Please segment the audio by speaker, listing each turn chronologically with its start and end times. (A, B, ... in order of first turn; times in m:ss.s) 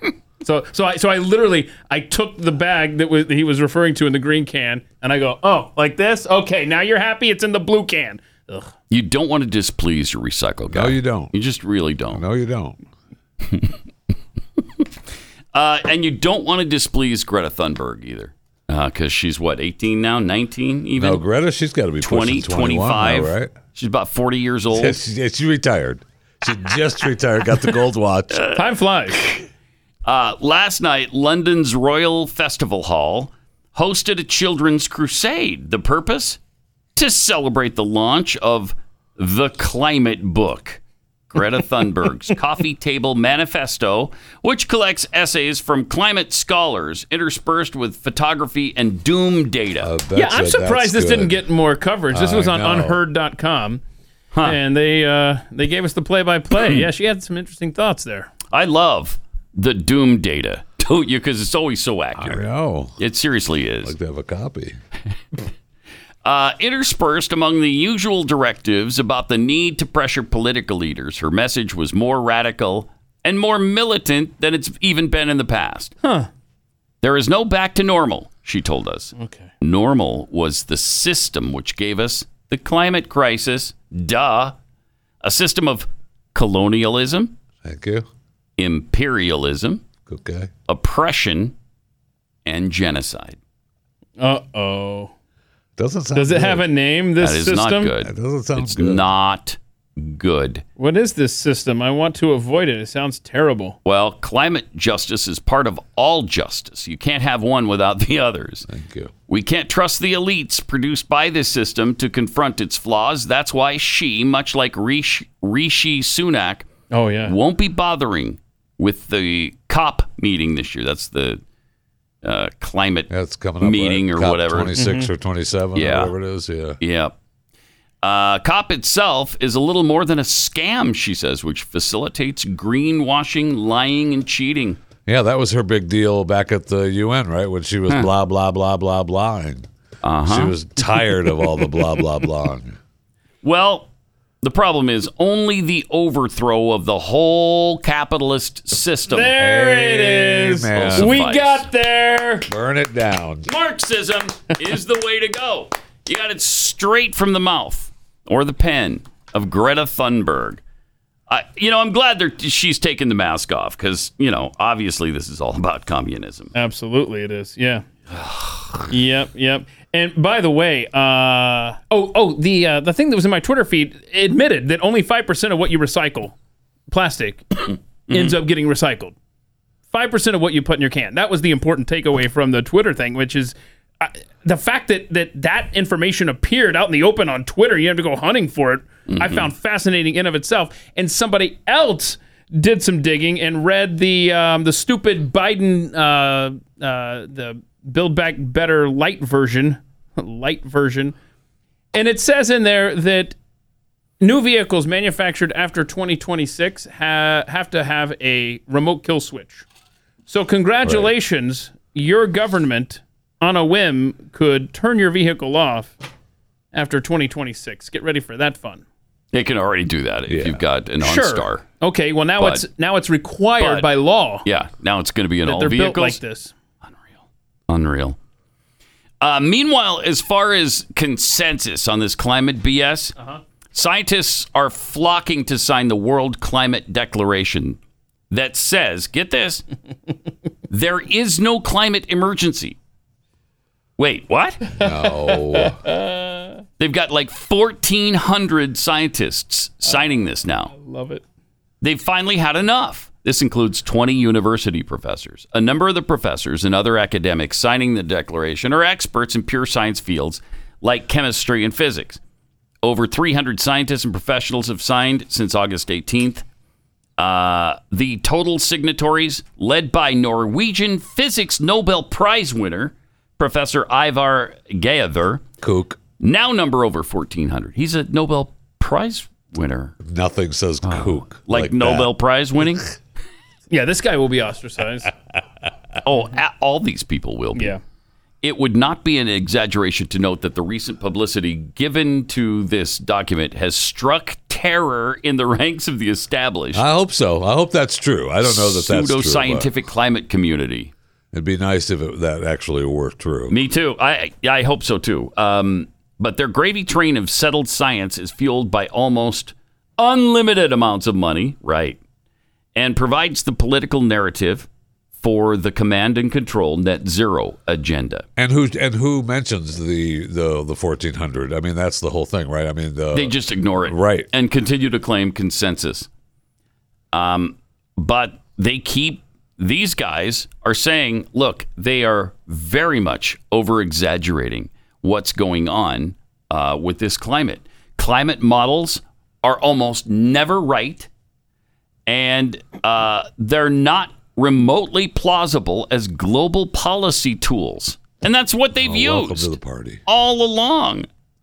0:00.4-0:08.7 A
0:08.9-0:12.2 B
0:10.7-0:11.3 C
0:12.1-0:12.8 C
0:15.5-0:21.2 B
0:21.0-0:23.5 C
0:22.0-0:25.0 B
0:24.7-0:28.5 C
0:28.5-0:29.2 A
0:30.0-0:36.4 B
0:37.0-0:40.8 B
0:41.3-0:49.9 B
0:49.8-0:51.4 C
0:50.1-0:53.8 A
0:52.1-0:53.0 C
0:54.3-0:54.6 B
0:54.4-0:58.3 A
0:58.5-1:02.5 B
1:02.2-1:03.0 C
1:03.0-1:03.9 B
1:03.8-1:04.8 C
1:06.2-1:15.9 B
1:16.0-1:16.3 A
1:17.0-1:24.5 B
1:19.2-1:19.5 A
1:25.2-1:27.3 B
1:27.6-1:28.1 C
1:28.6-1:29.8 B
1:30.0-1:30.5 C
1:30.7-1:31.5 B
1:32.4-1:33.4 B
1:34.2-1:35.1 A
1:35.8-1:36.7 C
1:36.1-1:37.9 A
1:37.2-1:40.6 B
1:38.0-1:39.1 C
1:40.8-1:43.8 A
1:43.8-1:48.7 B
1:48.7-1:49.1 C
1:49.3-1:56.7 B
1:56.9-1:57.3 A
1:57.2-2:01.4 B
2:02.2-2:03.1 B
2:03.1-2:06.8 C
2:03.6-2:04.7 B
2:04.8-2:05.1 A
2:05.7-2:06.1 B
2:06.8-2:07.1 B
2:08.0-2:14.8 B
2:15.0-2:19.7 C
2:20.0-2:20.5 B
2:20.2-2:22.8 C
2:23.4-2:23.9 B
2:24.4-2:29.4 B
2:29.1-2:32.5 A
2:29.3-2:31.2 C
2:30.7-2:31.6 B
2:32.5-2:33.5 C
2:33.5-2:40.6 B
2:41.3-2:46.5 B
2:46.5-2:47.8 A
2:48.1-2:48.9 B
2:48.9-2:56.3 A
2:56.9-2:59.1 A
2:58.1-2:58.3 B
2:59.9-3:21.1 A
3:09.1-3:09.4 B
3:21.9-3:23.3 A
3:24.2-3:29.6 A
3:30.3-3:35.9 A
3:30.8-3:31.1 C
3:36.7-3:38.8 A
3:39.3-3:41.6 B
3:40.3-3:40.6 C
3:41.0-3:44.4 A
3:43.6-3:43.9 B
3:44.4-3:46.2 B
3:45.4-3:46.5 A
3:47.7-3:48.2 B
3:49.2-3:53.1 B
3:53.7-3:57.8 B
3:58.3-3:59.6 B
4:00.7-4:02.8 B
4:04.0-4:04.6 B
4:04.7-4:05.8 C
4:04.8-4:06.6 A
4:06.8-4:10.7 B
4:09.8-4:10.1 A
4:10.6-4:11.2 A
4:11.8-4:22.2 B
4:22.8-4:26.4 B
4:27.2-4:35.4 B
4:35.6-4:36.0 C
4:36.2-4:39.9 B
4:40.0-4:42.1 C
4:40.8-4:42.8 B
4:43.7-4:45.1 A
4:46.0-4:47.8 B
4:46.1-4:46.4 A
4:47.5-4:47.8 A
4:48.4-4:56.8 B
4:56.7-4:59.7 C
4:58.4-5:00.9 B
5:01.3-5:03.5 C
5:03.5-5:12.0 B
5:12.7-5:14.7 B
5:15.2-5:18.2 B
5:18.4-5:23.3 C
5:23.1-5:26.1 B
5:23.8-5:24.3 C
5:27.1-5:41.1 B
5:42.1-5:49.5 B
5:48.8-5:50.0 C
5:50.0-5:51.1 B